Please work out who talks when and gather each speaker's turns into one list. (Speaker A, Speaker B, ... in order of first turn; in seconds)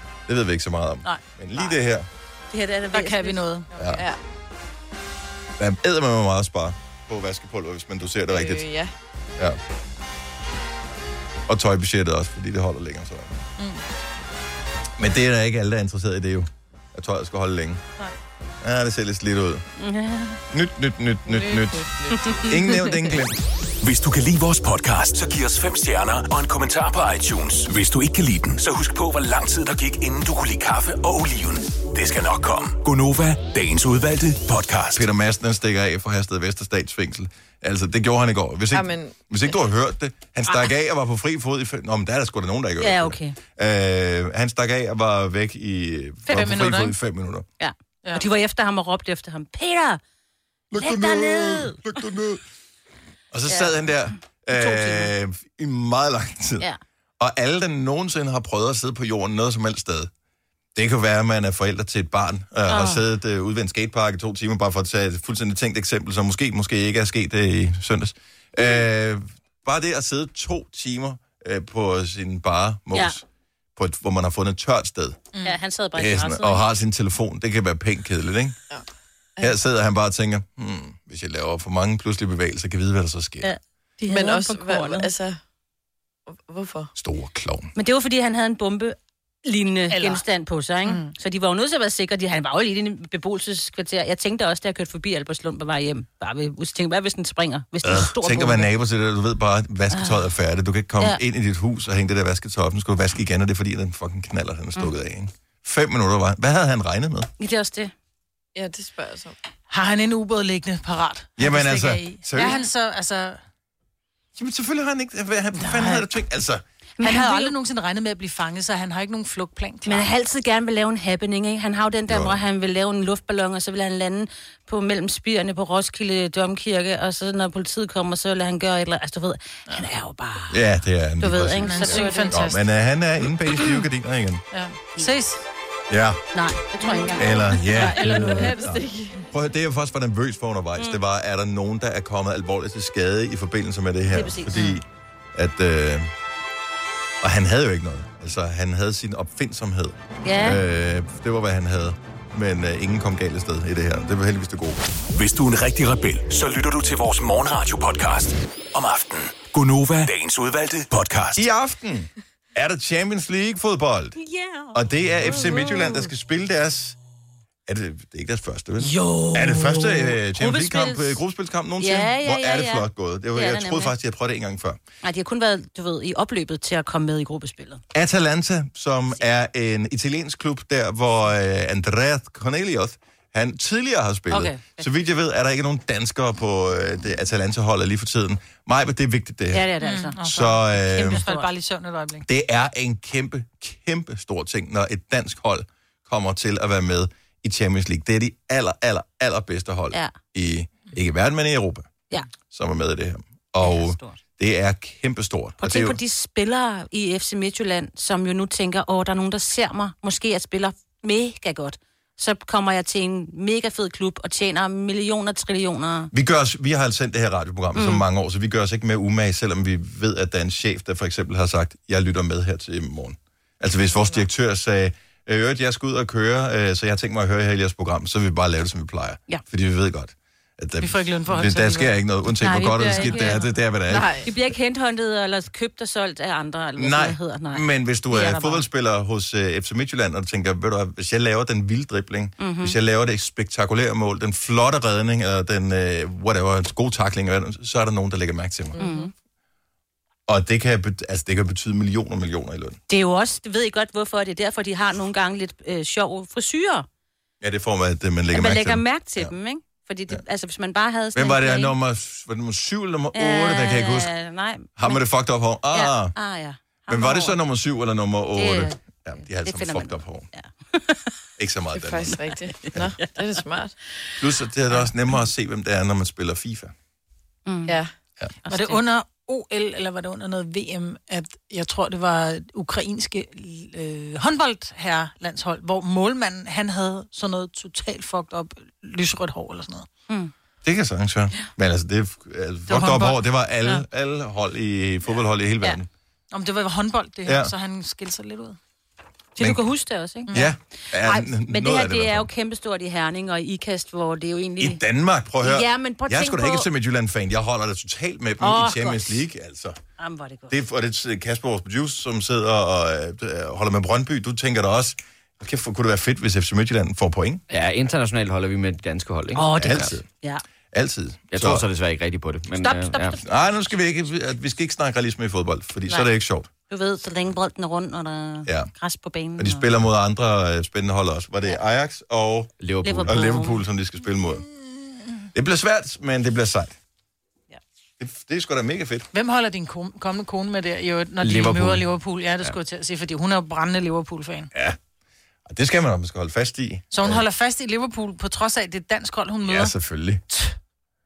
Speaker A: 0.3-2.1, 3.8-4.0, 5.6-8.7, 11.5-13.4, 15.0-17.8, 18.6-19.6, 20.5-21.9, 22.4-23.4, 34.9-47.5, 50.7-52.4, 53.3-56.7, 57.2-60.1, 60.7-73.2, 73.8-75.2, 76.0-78.6, 79.4-83.5, 87.0-87.7, 97.8-107.3, 111.4-112.6, 114.3-116.6, 122.1-122.4, 130.5-134.4, 135.9-136.2, 137.1-146.1, 147.2-154.8, 161.3-164.1, 164.7-166.9, 167.7-174.8, 177.9-189.7, 190.2-191.2, 192.2-201.9, 202.5-206.0, 216.1-234.2, 236.8-248.8, 250.3-252.8, 257.4-259.3, 261.1-264.1, 264.8-266.1, 266.9-270.3, 271.4-272.2, 274.2-276.7, 290.6-295.9, 297.2-297.5, 300.3-302.3, 304.6-309.8, 310.5-317.4, 319.5-320.0, 320.7-321.7, 323.2-326.5, 329.4-332.5, 333.0-334.4, 335.3-336.8, 338.0-339.1, 345.4-347.2, 349.4-350.2
Speaker B: 2.5-3.4, 19.8-20.4, 42.8-43.4, 47.6-50.0, 50.8-51.8, 53.5-53.8, 54.5-55.1, 62.7-63.0, 75.4-76.6, 83.4-85.1, 87.7-98.7, 99.9-100.2, 107.4-107.9, 117.0-117.5, 119.8-130.6, 131.2-132.4, 136.3-138.5, 144.1-144.8, 150.2-150.6, 164.2-166.1, 168.8-171.2, 171.8-173.9, 175.0-177.8, 184.4-184.8, 189.5-190.3, 190.9-191.5, 203.6-204.2, 205.6-216.1, 217.7-218.0, 232.5-233.4, 234.2-238.6, 242.4-242.7, 248.8-249.1, 252.9-256.9, 258.3-261.7, 263.1-265.0, 265.7-267.4, 268.4-268.8, 269.4-271.1, 277.4-277.8, 278.4-278.8, 299.4-300.4, 301.0-304.8, 305.4-306.7, 308.4-309.2, 310.0-310.5, 319.3-320.4, 322.6-323.2, 326.7-329.7, 332.8-333.6
Speaker C: 2.9-3.7, 46.3-47.0, 89.9-90.2, 90.8-91.1, 109.7-113.4, 115.5-116.1, 117.0-120.1, 131.6-132.6, 134.5-135.4, 137.7-138.6, 184.3-184.6, 189.8-192.2, 230.8-233.5, 278.5-289.9, 292.7-293.8, 296.3-298.6, 300.3-300.5, 339.1-344.5, 346.9-349.7
Speaker D: 3.9-4.2, 8.3-8.9, 21.3-23.2, 38.7-39.2, 84.1-85.4, 86.3-86.9, 108.5-109.4, 138.1-139.2, 223.8-224.3, 233.9-234.3, 248.8-249.1, 271.7-273.8
Speaker E: 23.8-35.1, 155.1-161.5
Speaker F: 317.5-319.9, 321.3-323.2, 332.6-333.3, 341.2-341.8